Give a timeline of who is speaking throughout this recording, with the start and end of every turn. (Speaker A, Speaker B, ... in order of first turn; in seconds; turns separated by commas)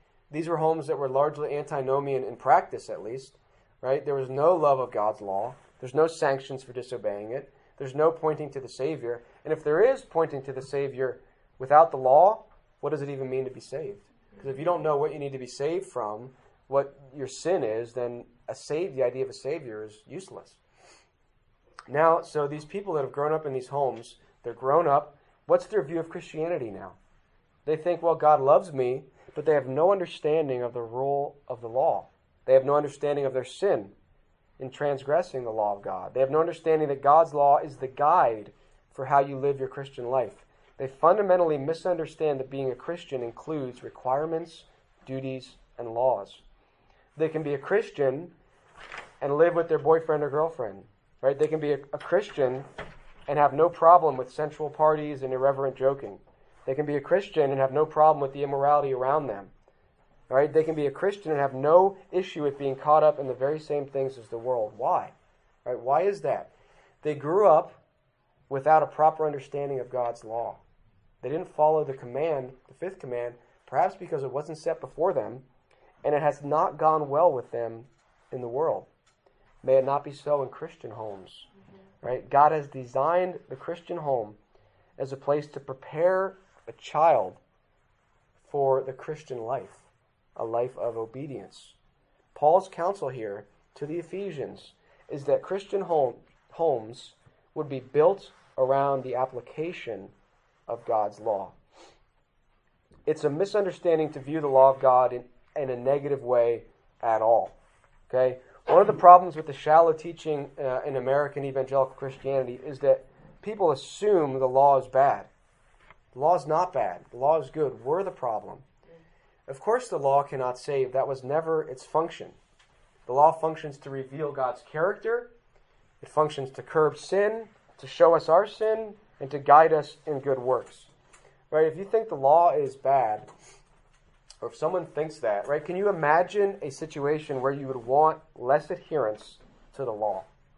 Speaker A: 0.3-20.6, Speaker A: 21.9-27.0, Speaker A: 27.6-33.9, Speaker A: 34.6-46.4, Speaker A: 47.1-48.3, Speaker A: 49.2-52.7, Speaker A: 53.3-59.5, Speaker A: 60.3-65.1, Speaker A: 65.6-66.5, Speaker A: 67.0-67.8, Speaker A: 68.5-70.6, Speaker A: 71.2-75.5, Speaker A: 76.0-78.9, Speaker A: 79.6-81.5, Speaker A: 82.0-84.4, Speaker A: 85.0-87.4, Speaker A: 88.5-89.8, Speaker A: 90.3-91.7, Speaker A: 92.3-100.1, Speaker A: 100.7-101.5, Speaker A: 103.0-107.5, Speaker A: 108.1-115.3, Speaker A: 116.1-118.6, Speaker A: 119.5-122.4, Speaker A: 123.1-125.3, Speaker A: 126.0-130.9, Speaker A: 131.5-133.3, Speaker A: 134.4-140.3